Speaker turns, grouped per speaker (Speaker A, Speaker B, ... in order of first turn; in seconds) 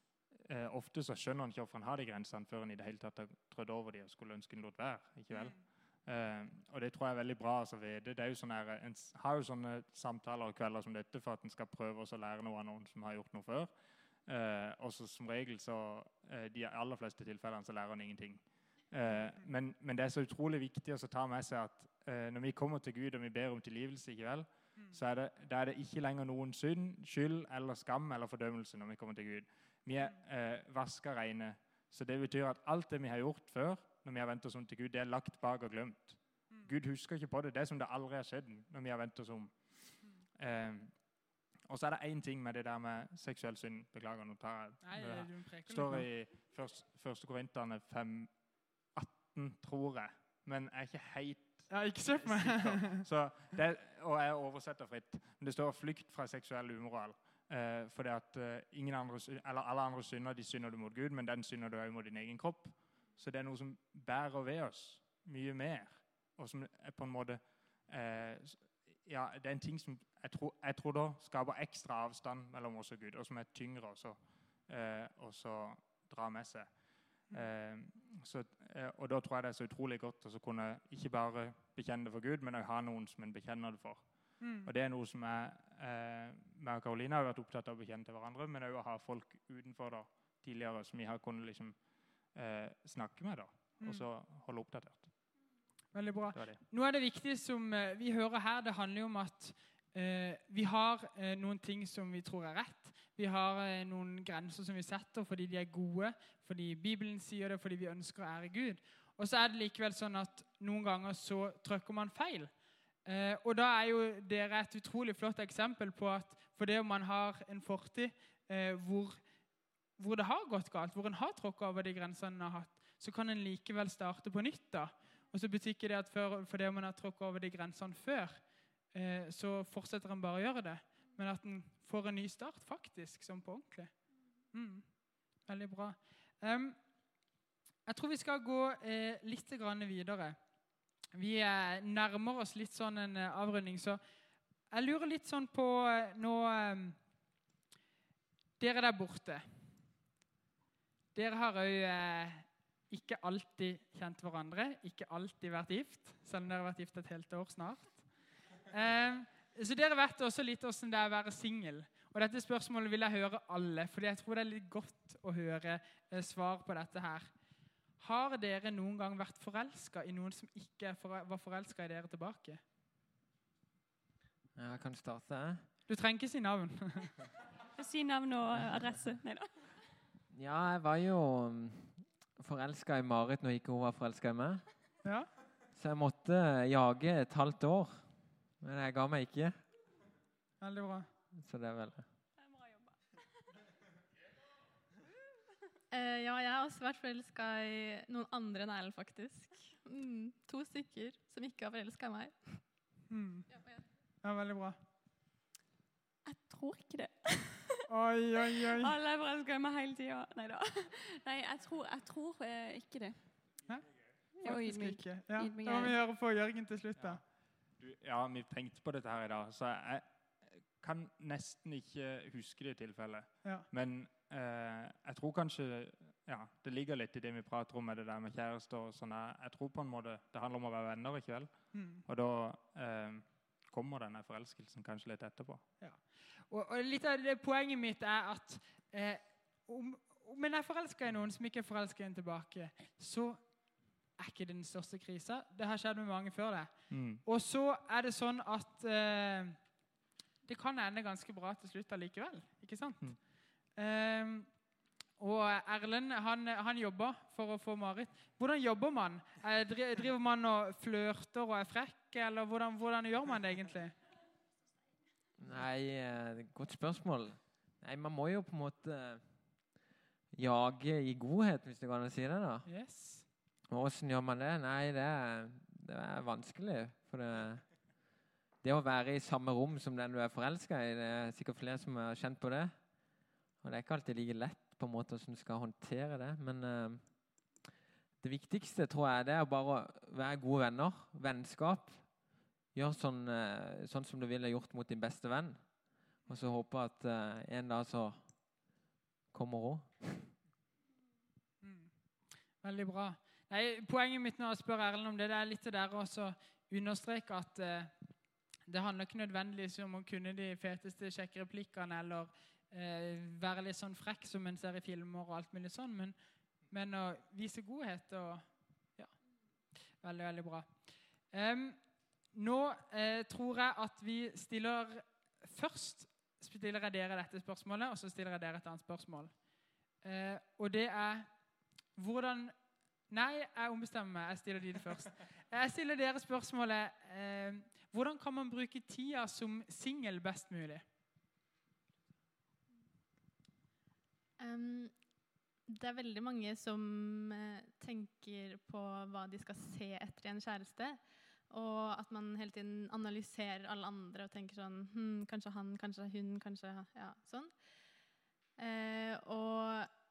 Speaker A: 0.1-95.1, 96.3-96.6, 217.0-235.7, 246.9-247.2
Speaker B: 5.3-5.6, 19.0-19.5, 44.8-46.1, 51.7-53.0, 84.4-84.7, 93.8-94.1, 95.9-119.3, 120.0-136.9, 137.8-140.5, 141.1-144.0, 144.7-147.0, 148.6-149.7, 151.1-167.3, 168.0-172.6, 175.9-177.2, 190.6-191.1, 203.1-203.5, 204.2-204.8, 207.9-208.9, 213.7-217.2, 231.7-232.1, 235.8-249.8, 250.4-264.0, 272.6-273.3, 301.6-316.2, 316.7-319.1, 319.9-329.4, 330.0-331.3, 331.9-340.8
Speaker C: 174.6-175.7, 180.3-184.6, 185.7-189.6, 191.3-192.1, 265.4-269.3, 270.3-272.7, 273.7-277.9, 278.6-282.8, 283.6-287.4, 288.2-292.2, 292.7-298.7, 299.3-300.3
Speaker D: 177.8-179.5, 192.4-193.4, 206.3-207.8, 208.7-213.3, 214.3-216.0
Speaker E: 195.9-202.6, 344.4-345.0, 345.7-357.5, 358.6-359.9